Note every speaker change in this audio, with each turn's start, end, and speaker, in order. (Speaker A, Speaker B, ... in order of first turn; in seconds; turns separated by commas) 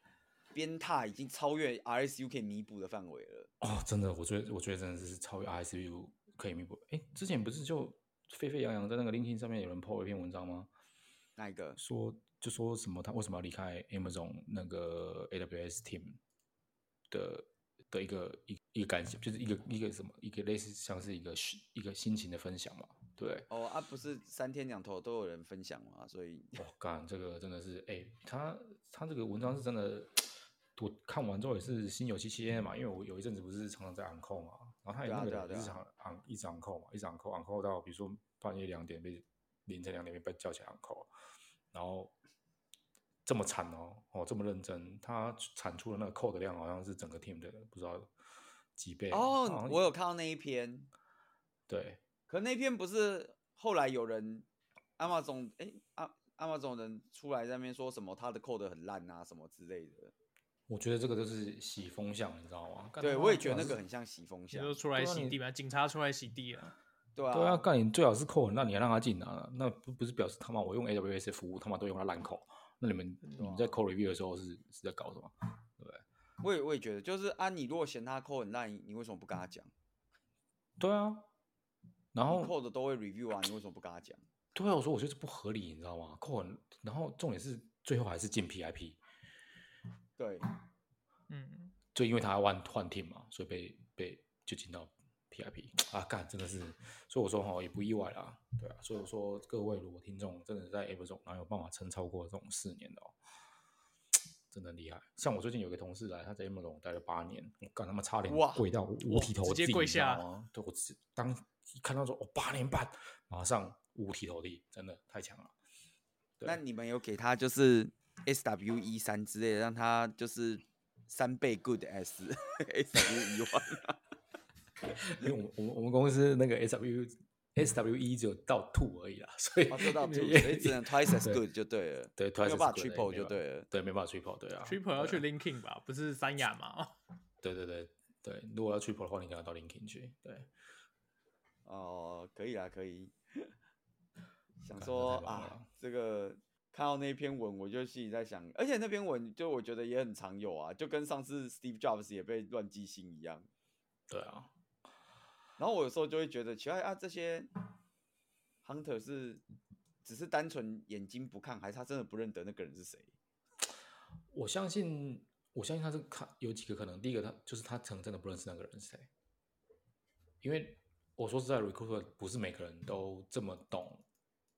Speaker A: 0.5-3.5, Speaker B: 3.6-10.7, Speaker A: 11.4-11.8, Speaker B: 11.8-16.2, Speaker B: 17.1-23.5, Speaker A: 23.5-26.6, Speaker B: 26.6-41.1, Speaker A: 35.0-35.8, Speaker B: 41.7-42.1, Speaker B: 43.3-48.1, Speaker B: 48.8-49.8, Speaker A: 49.1-50.9, Speaker B: 51.7-52.0, Speaker A: 52.3-54.5, Speaker A: 55.0-60.1, Speaker B: 60.7-63.8, Speaker A: 63.0-64.8, Speaker C: 64.5-66.7, Speaker B: 65.0-65.4, Speaker A: 67.2-67.7, Speaker B: 67.3-76.0, Speaker A: 73.4-73.8, Speaker A: 76.4-79.7, Speaker B: 80.8-81.3, Speaker B: 82.1-82.5, Speaker A: 82.3-84.2, Speaker B: 84.5-89.0, Speaker A: 90.2-90.5, Speaker C: 91.3-91.8, Speaker B: 92.0-103.2, Speaker B: 104.5-115.5, Speaker A: 108.3-108.7, Speaker C: 109.1-110.3, Speaker A: 116.5-124.0, Speaker B: 124.9-131.4, Speaker A: 129.7-133.7, Speaker B: 132.2-135.2, Speaker C: 134.6-136.9, Speaker B: 137.4-140.5, Speaker A: 141.7-143.5, Speaker A: 144.6-153.5, Speaker B: 144.8-145.7, Speaker B: 154.1-154.5, Speaker A: 155.6-157.5, Speaker A: 158.6-159.4, Speaker A: 160.1-163.1, Speaker B: 164.3-169.1, Speaker B: 170.4-174.0